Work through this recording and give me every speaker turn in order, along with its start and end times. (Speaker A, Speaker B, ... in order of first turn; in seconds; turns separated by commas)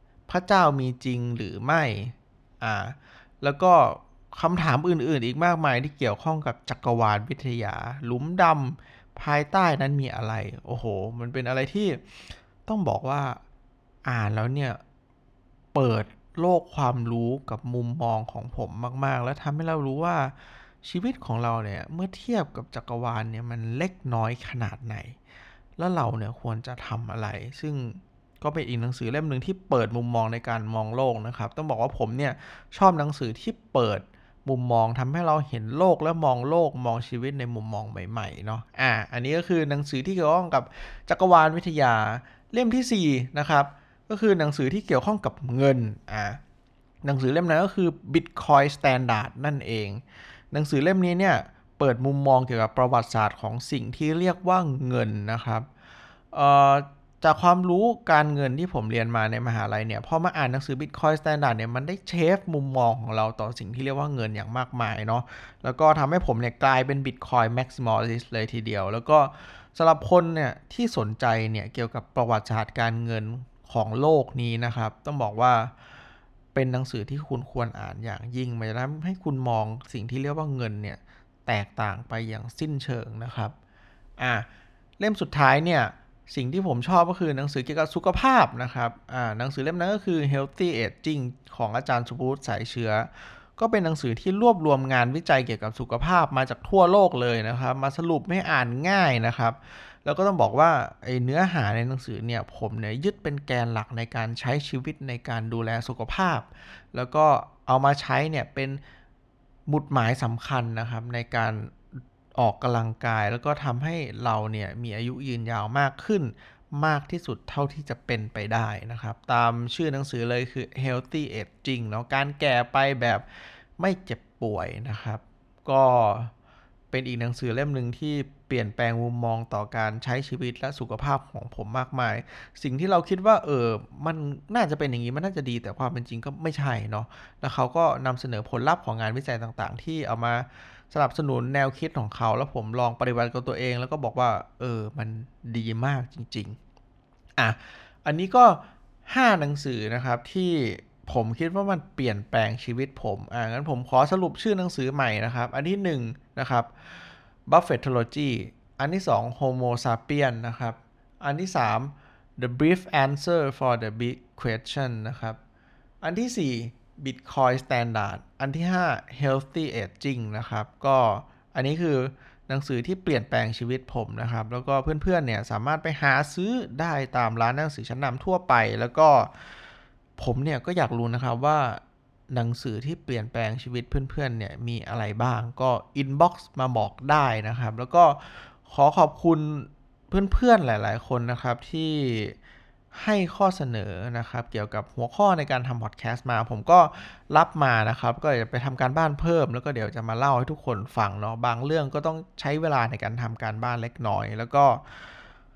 Speaker A: 0.3-12.0, Speaker A: 12.7-13.4, Speaker A: 14.1-14.8, Speaker A: 15.7-25.2, Speaker A: 25.8-46.4, Speaker A: 47.0-55.7, Speaker A: 56.3-75.7, Speaker A: 76.5-83.5, Speaker A: 84.2-84.5, Speaker A: 85.0-108.8, Speaker A: 109.7-111.8, Speaker A: 112.4-123.3, Speaker A: 123.8-126.3, Speaker A: 126.9-146.6, Speaker A: 147.4-165.4, Speaker A: 166.0-179.6, Speaker A: 180.2-192.4, Speaker A: 192.9-205.2